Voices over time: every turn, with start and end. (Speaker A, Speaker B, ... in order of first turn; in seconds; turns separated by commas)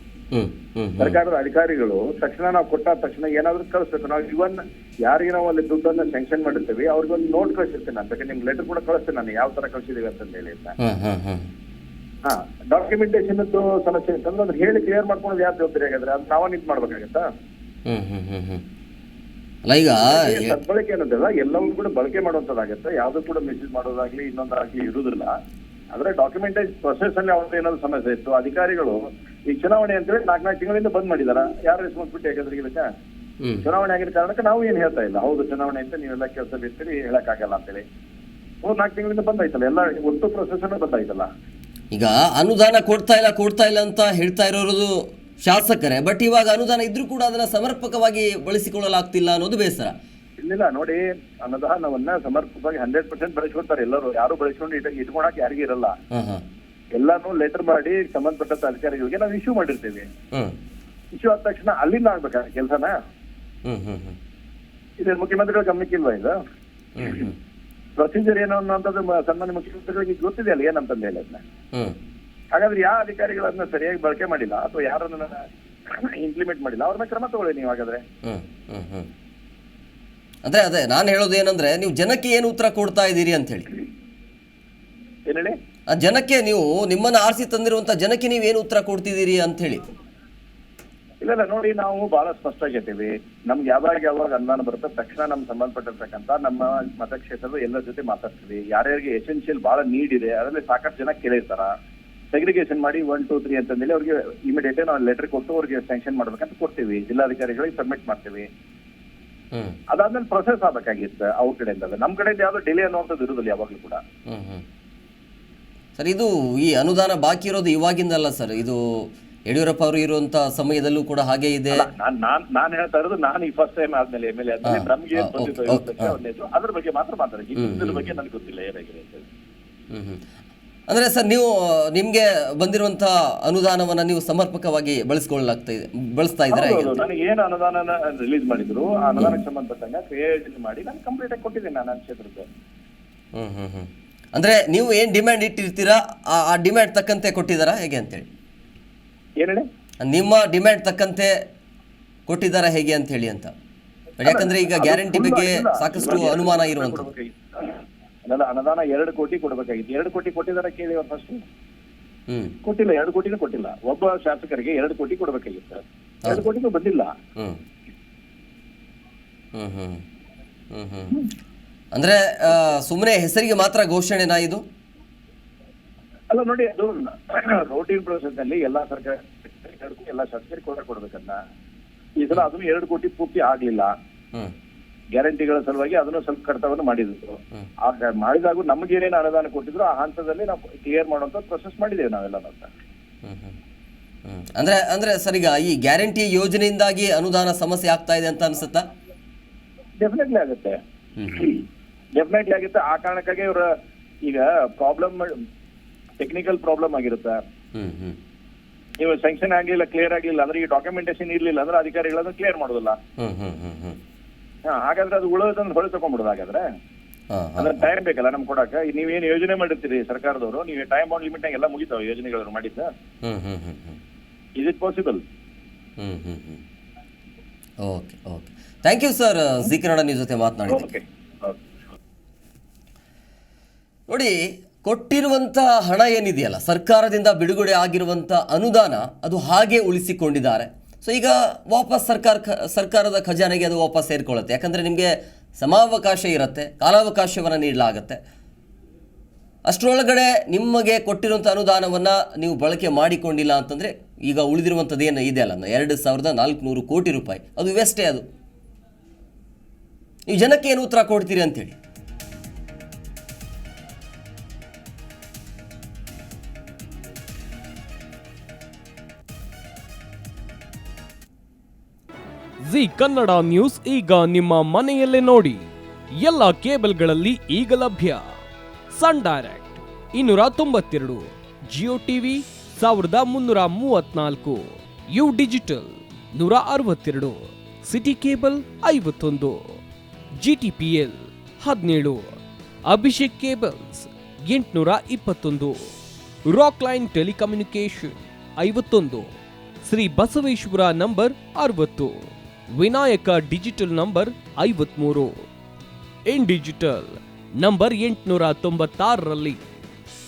Speaker A: 0.3-1.2, Speaker B: 1.0-10.8, Speaker A: 10.8-11.5, Speaker B: 12.2-17.2, Speaker A: 17.9-18.6, Speaker A: 19.6-20.6, Speaker B: 19.9-25.3, Speaker B: 25.9-32.9, Speaker B: 33.6-37.8, Speaker B: 38.6-41.3, Speaker A: 41.9-50.0, Speaker B: 50.4-56.0, Speaker A: 56.1-56.4, Speaker B: 57.0-60.1, Speaker B: 61.1-63.0, Speaker A: 63.6-64.2, Speaker B: 65.0-66.3, Speaker A: 67.0-67.3, Speaker B: 68.0-71.4, Speaker B: 72.5-78.0, Speaker A: 78.2-79.1, Speaker A: 80.5-83.7, Speaker B: 85.3-85.5, Speaker A: 85.9-89.8, Speaker B: 91.2-101.7, Speaker B: 102.3-108.5, Speaker B: 109.9-114.0, Speaker A: 114.3-114.6, Speaker A: 116.0-118.8, Speaker A: 119.5-121.9, Speaker B: 121.7-129.3, Speaker A: 124.7-126.2, Speaker A: 127.6-128.1, Speaker A: 129.9-130.2, Speaker A: 130.9-137.0, Speaker B: 136.5-142.5, Speaker A: 143.4-148.3, Speaker A: 150.0-151.3, Speaker A: 152.3-153.5, Speaker A: 154.2-157.1, Speaker B: 154.2-161.4, Speaker A: 162.3-162.5, Speaker B: 162.6-167.1, Speaker A: 169.6-170.0, Speaker A: 170.7-171.2, Speaker A: 171.9-174.6, Speaker B: 176.3-181.4, Speaker B: 182.2-183.9, Speaker B: 185.1-192.7, Speaker A: 193.2-193.6, Speaker A: 194.3-198.9, Speaker B: 200.0-200.8, Speaker A: 201.2-201.4, Speaker B: 201.3-201.6, Speaker B: 202.2-203.7, Speaker B: 204.2-205.3, Speaker B: 206.2-207.4, Speaker A: 207.8-208.2, Speaker B: 209.0-213.0, Speaker A: 213.2-214.0, Speaker B: 214.7-216.6, Speaker A: 217.3-217.9, Speaker B: 217.6-222.9, Speaker A: 223.2-224.0, Speaker B: 224.6-225.2, Speaker A: 226.0-226.6, Speaker A: 227.8-230.9, Speaker B: 230.7-231.6, Speaker A: 234.1-248.2, Speaker A: 249.7-258.2, Speaker A: 260.3-261.8, Speaker C: 272.6-275.7, Speaker C: 276.2-278.3, Speaker C: 278.9-289.8, Speaker C: 290.4-295.9, Speaker C: 296.5-299.3, Speaker C: 299.8-305.5, Speaker C: 306.3-309.6